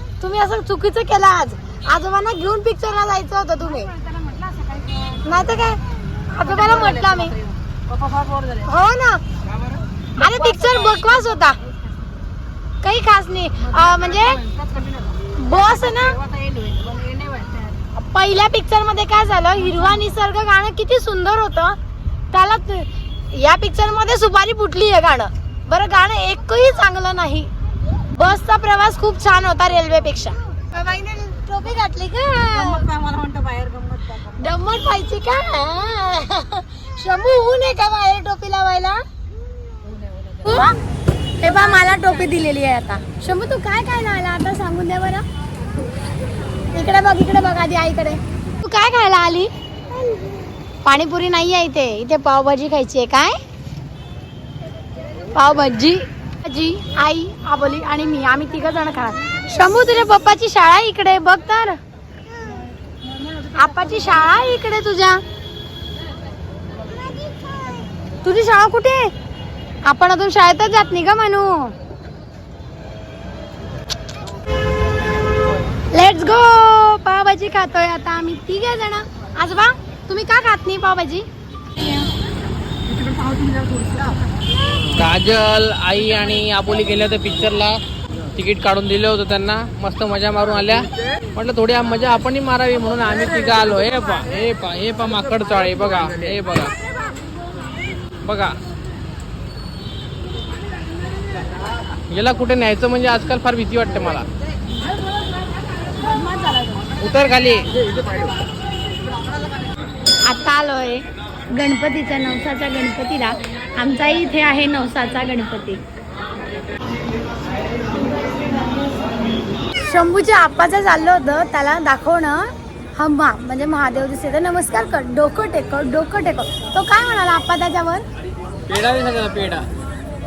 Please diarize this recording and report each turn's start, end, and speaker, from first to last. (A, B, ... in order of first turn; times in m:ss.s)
0:00.2-0:03.9 A
0:04.1-0:05.0 B
0:05.2-0:07.3 A
0:07.9-0:08.5 B
0:08.6-0:09.2 A
0:10.2-0:11.6 A
0:12.8-0:14.4 A
0:14.5-0:15.2 B
0:15.3-0:16.2 A
0:16.2-0:17.8 B
0:17.9-0:21.8 A
0:22.3-0:27.5 A
0:28.1-0:32.8 A
0:32.9-0:34.0 B
0:34.2-0:39.0 A
0:40.4-0:40.8 A
0:41.4-0:45.2 A
0:46.7-0:49.5 A
0:50.8-0:53.4 A
0:55.3-1:01.8 A
1:03.4-1:05.2 A
1:08.2-1:09.1 A
1:09.8-1:11.7 A
1:15.9-1:21.3 A
1:24.9-1:27.8 C
1:28.4-1:36.7 C
1:38.2-1:38.6 C
1:42.1-1:44.3 C
1:46.0-1:46.8 A
1:47.0-1:47.9 C
1:50.2-1:55.8 A
1:59.8-2:08.0 A
2:08.7-2:09.7 C